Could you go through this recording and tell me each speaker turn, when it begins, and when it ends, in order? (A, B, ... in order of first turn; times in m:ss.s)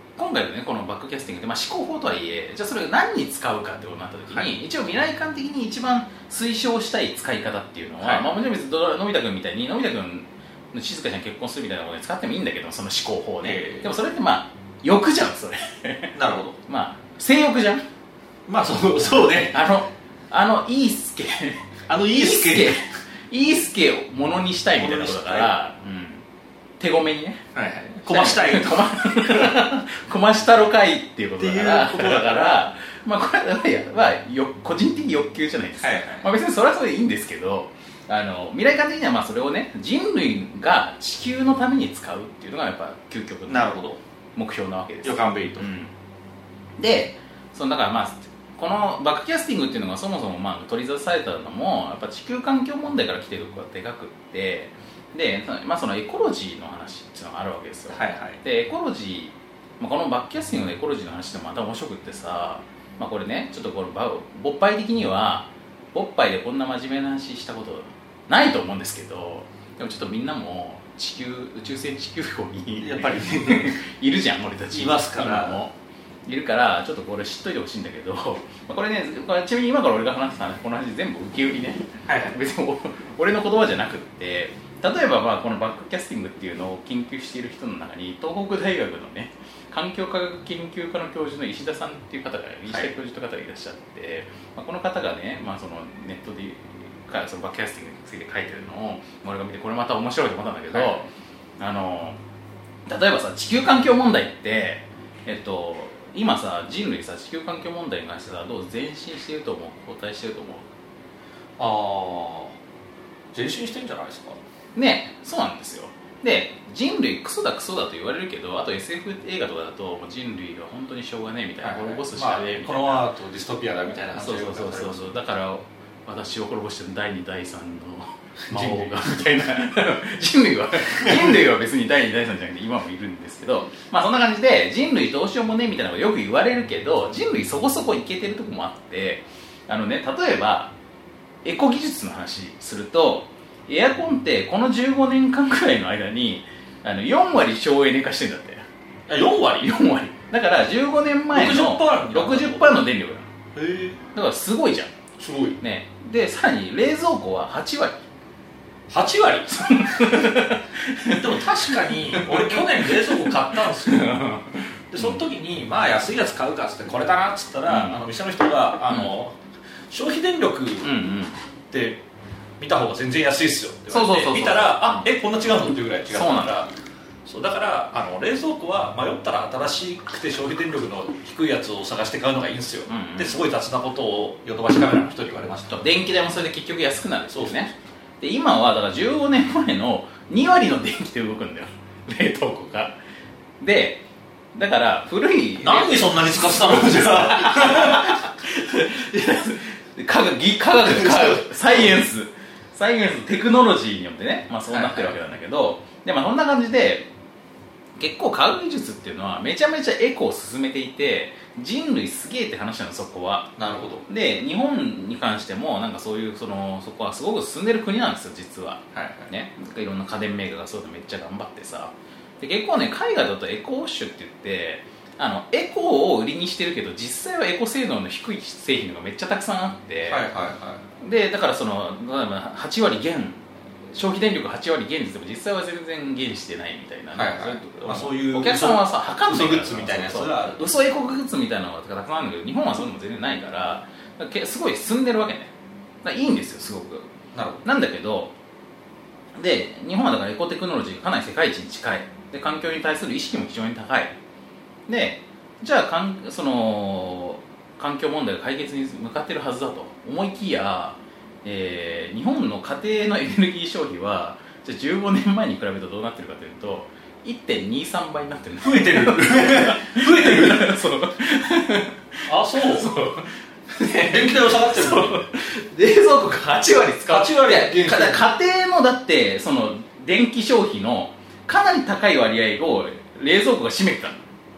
0:00.2-0:16.2 A
0:08.0-0:08.3 B
0:13.4-0:13.9 B
0:16.2-0:16.6 B
0:16.7-0:17.8 A
0:18.5-0:19.6 B
0:19.4-0:26.2 A
0:21.9-0:22.9 B
0:24.8-0:25.5 B
0:26.8-0:27.4 A
0:27.5-0:29.5 B
0:28.1-0:43.8 A
0:31.4-0:32.6 B
0:35.8-0:36.3 B
0:43.5-0:44.0 B
0:44.4-0:45.9 A
0:45.0-0:45.7 B
0:46.8-1:15.7 A
0:57.9-0:58.4 B
1:12.8-1:13.8 B
1:14.7-1:15.6 B
1:16.3-1:41.1 A
1:22.1-1:22.4 B
1:40.7-1:41.0 B
1:41.6-1:42.2 A
1:42.9-1:50.7 A
1:51.6-1:52.6 B
1:53.3-1:54.4 B
1:54.8-2:03.1 A
2:01.6-2:05.1 B
2:04.1-2:20.7 A
2:08.5-2:09.0 B
2:11.0-2:11.4 B
2:21.4-2:28.6 A
2:29.1-2:29.8 B
2:29.6-2:33.3 A
2:31.3-2:32.8 B
2:33.6-2:34.0 B
2:34.1-2:34.9 A
2:35.2-2:35.6 B
2:35.6-2:38.0 A
2:38.9-2:40.3 B
2:39.7-2:45.2 A
2:41.1-2:44.1 B
2:44.9-2:49.4 B
2:47.7-2:48.0 A
2:49.9-2:50.9 B
2:50.8-2:51.4 A
2:51.7-2:52.0 B
2:52.6-2:56.7 B
2:53.9-2:55.1 A
2:56.1-2:56.6 A
2:57.3-3:05.8 B
3:02.9-3:03.4 A
3:05.7-3:13.0 A
3:07.3-3:07.6 B
3:13.6-3:14.0 A
3:14.5-3:27.1 A
3:15.6-3:18.2 B
3:20.8-3:22.0 B
3:24.7-3:25.2 B
3:28.0-3:33.5 A
3:33.6-3:34.0 B
3:34.1-3:50.3 A
3:38.9-3:39.3 B
3:50.1-3:50.8 B
3:51.0-4:05.5 A
3:57.1-4:00.7 B
4:06.0-4:07.1 A
4:07.3-4:07.6 B
4:07.6-4:08.3 A
4:09.4-4:14.2 A
4:14.9-4:44.3 A
4:28.6-4:30.7 B
4:32.3-4:32.9 B
4:33.8-4:35.3 B
4:37.1-4:38.2 B